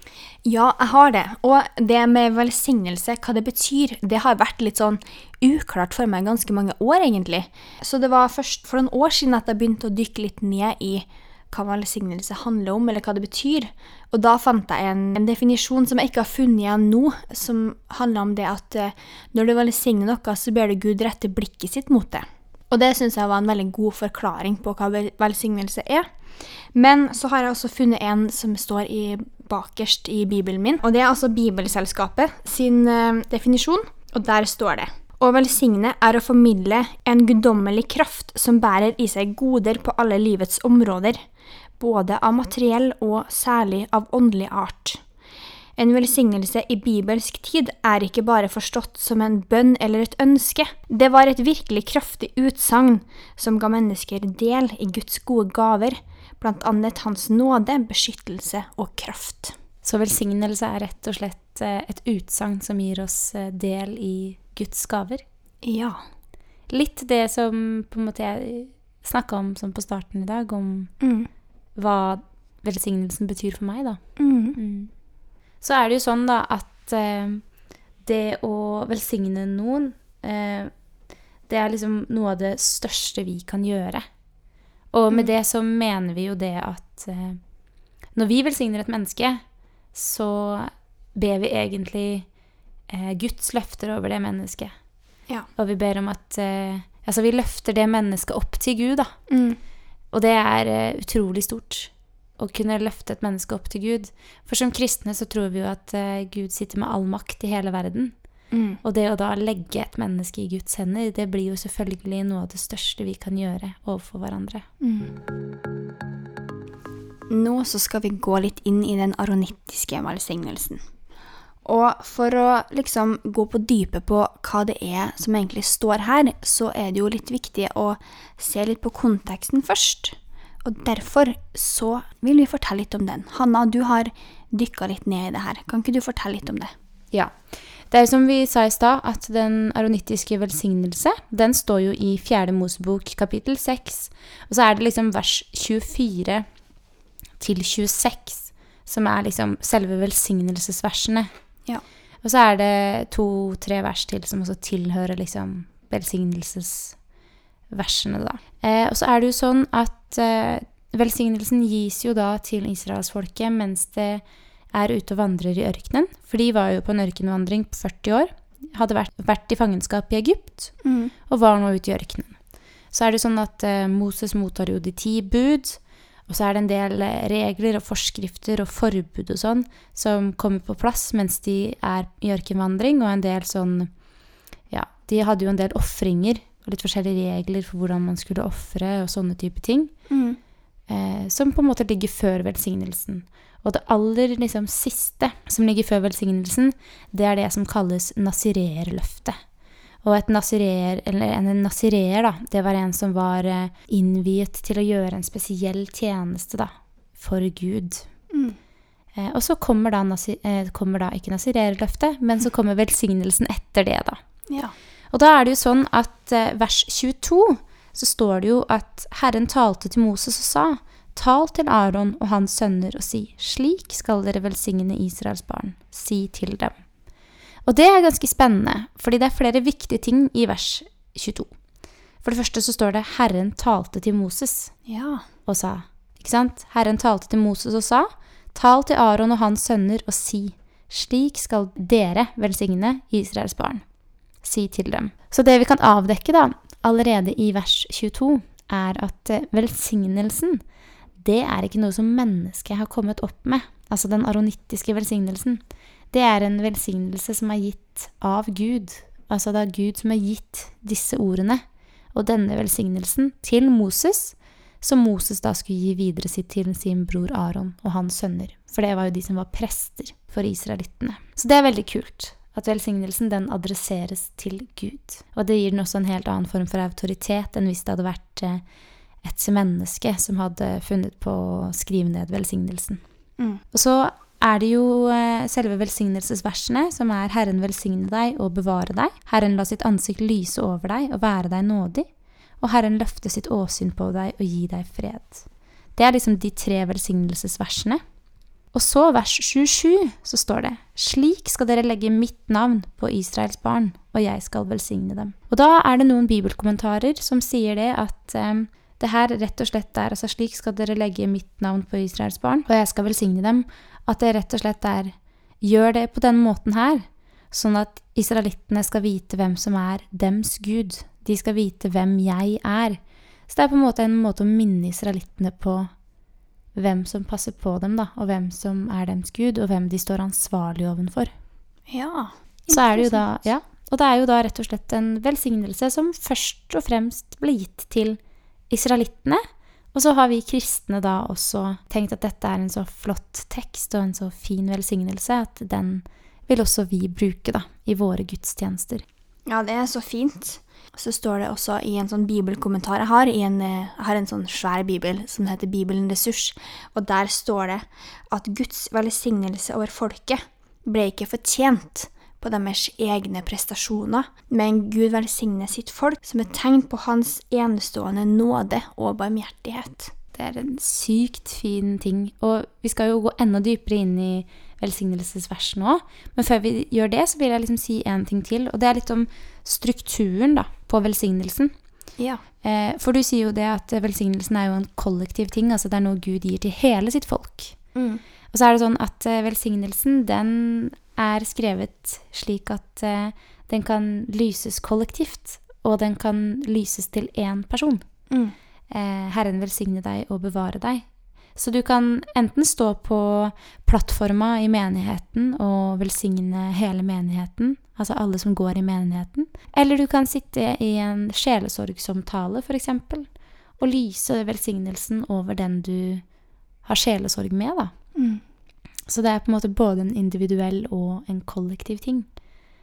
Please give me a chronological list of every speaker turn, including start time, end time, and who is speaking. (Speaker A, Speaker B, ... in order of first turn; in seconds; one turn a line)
Speaker A: 0.4-41.2
Speaker A: 41.8-45.0
Speaker A: 45.8-59.5
Speaker B: 59.8-65.2
Speaker A: 65.6-66.0
Speaker B: 66.7-70.9
Speaker A: 71.0-71.3
Speaker B: 71.8-74.0
Speaker A: 74.2-74.6
Speaker B: 74.5-74.9
Speaker B: 75.6-77.4
Speaker B: 78.0-80.7
Speaker B: 81.5-84.0
Speaker B: 84.9-87.4
Speaker B: 88.1-89.4
Speaker B: 89.9-92.3
Speaker B: 92.9-94.7
Speaker B: 95.6-99.1
Speaker A: 99.3-99.6
Speaker B: 100.1-108.2
Speaker A: 108.5-108.8
Speaker B: 108.8-114.7
Speaker A: 114.8-115.2
Speaker A: 117.3-120.8
Speaker A: 121.6-136.7
Speaker B: 137.9-146.4
Speaker B: 147.4-151.3
Speaker B: 152.2-157.0
Speaker B: 157.7-170.7
Speaker A: 170.8-171.1
Speaker B: 171.3-172.4
Speaker B: 172.9-183.9
Speaker B: 184.7-189.9
Speaker A: 190.1-190.4
Speaker B: 190.9-199.4
Speaker B: 200.0-208.1
Speaker A: 208.3-208.6
Speaker B: 209.1-214.2
Speaker B: 215.1-226.7
Speaker B: 227.6-231.5
Speaker B: 232.2-234.7
Speaker A: 234.8-235.2
Speaker B: 235.4-243.8
Speaker B: 244.4-250.6
Speaker B: 251.2-278.6
Speaker B: 279.2-283.0
Speaker B: 283.7-292.1
Speaker B: 292.6-298.0
Speaker B: 298.7-325.9
Speaker B: 326.7-331.3
Speaker A: 331.9-333.2
Speaker B: 332.7-338.2
Speaker B: 338.7-339.4
Speaker B: 339.9-349.0
Speaker A: 349.5-370.1
Speaker B: 370.3-381.7
Speaker B: 382.6-387.8
Speaker A: 387.9-388.2
Speaker B: 388.5-398.0
Speaker A: 398.3-398.5
Speaker B: 398.9-401.0
Speaker B: 401.6-413.3
Speaker B: 413.8-416.2
Speaker B: 416.8-417.9
Speaker A: 418.1-418.4
Speaker B: 419.1-422.3